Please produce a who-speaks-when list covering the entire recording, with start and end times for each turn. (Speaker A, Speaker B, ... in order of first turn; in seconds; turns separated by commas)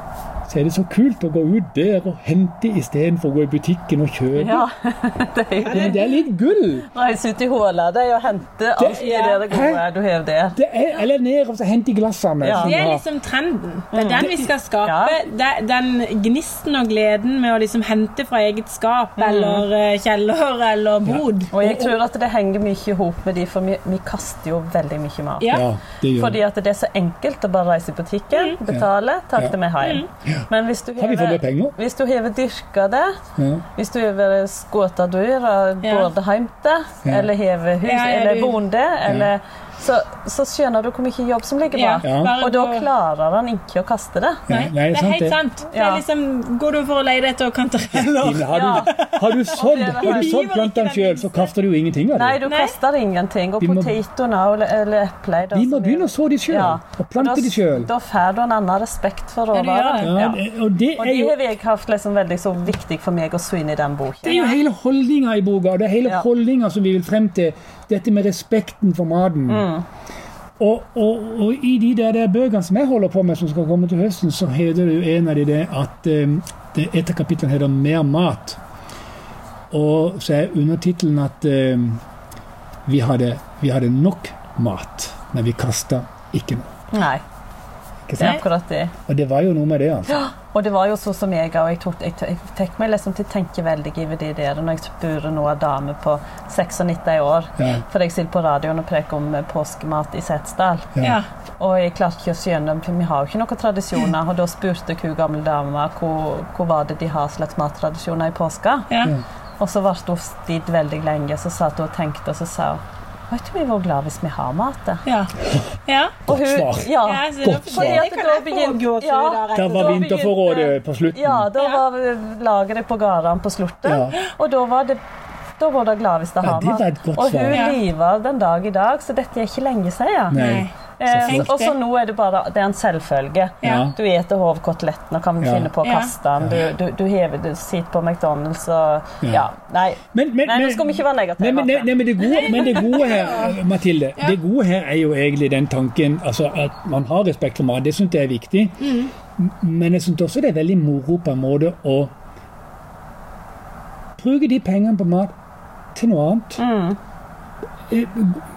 Speaker A: 0.5-4.7, Speaker B: 4.3-6.0, Speaker C: 5.6-6.0, Speaker A: 5.7-6.9, Speaker B: 6.9-10.6, Speaker A: 8.8-9.8, Speaker C: 8.9-9.6, Speaker A: 10.6-13.0, Speaker B: 12.4-12.8, Speaker C: 12.6-21.5, Speaker B: 13.9-15.2, Speaker B: 19.2-19.7, Speaker A: 21.1-21.9, Speaker B: 21.5-25.6, Speaker C: 25.4-25.7, Speaker A: 25.5-26.4, Speaker B: 26.1-33.1, Speaker A: 28.7-29.6, Speaker A: 30.2-31.8, Speaker A: 33.4-33.7, Speaker B: 33.8-44.5, Speaker C: 35.8-36.1, Speaker C: 37.8-38.6, Speaker A: 39.0-39.3, Speaker C: 41.7-42.9, Speaker A: 42.0-42.4, Speaker A: 44.5-45.4, Speaker C: 44.5-51.5, Speaker B: 45.7-46.0, Speaker A: 47.9-52.4, Speaker B: 48.5-50.4, Speaker B: 52.1-60.4, Speaker C: 52.5-52.8, Speaker A: 53.6-53.9, Speaker A: 55.5-57.9, Speaker C: 59.5-60.1, Speaker A: 60.0-61.4, Speaker B: 61.0-64.4, Speaker A: 64.2-69.7, Speaker C: 64.2-64.6, Speaker B: 69.5-69.8, Speaker A: 70.6-78.6, Speaker A: 79.7-82.0, Speaker A: 82.9-86.7, Speaker B: 86.9-87.2, Speaker A: 88.1-88.4, Speaker B: 88.2-88.9, Speaker A: 89.1-90.2, Speaker B: 90.1-100.9, Speaker A: 97.6-97.8, Speaker C: 101.0-101.2, Speaker B: 101.6-108.9, Speaker C: 108.9-109.2, Speaker B: 109.6-115.0, Speaker C: 115.0-115.3, Speaker C: 115.9-116.2, Speaker A: 116.3-118.1, Speaker B: 116.3-125.0, Speaker C: 117.0-120.3, Speaker A: 119.5-121.5, Speaker C: 121.6-121.8, Speaker A: 123.8-124.2, Speaker B: 125.6-141.9, Speaker A: 126.4-127.6, Speaker C: 127.5-127.8, Speaker A: 130.3-131.5, Speaker C: 130.3-130.7, Speaker C: 131.3-131.8, Speaker C: 133.6-133.9, Speaker A: 133.6-134.0, Speaker A: 135.4-135.7, Speaker C: 135.8-136.1, Speaker A: 136.4-136.7, Speaker A: 140.1-152.1, Speaker C: 142.2-143.6, Speaker C: 148.8-149.1, Speaker A: 154.2-155.3, Speaker A: 155.9-156.6, Speaker B: 156.6-157.0, Speaker A: 157.9-158.4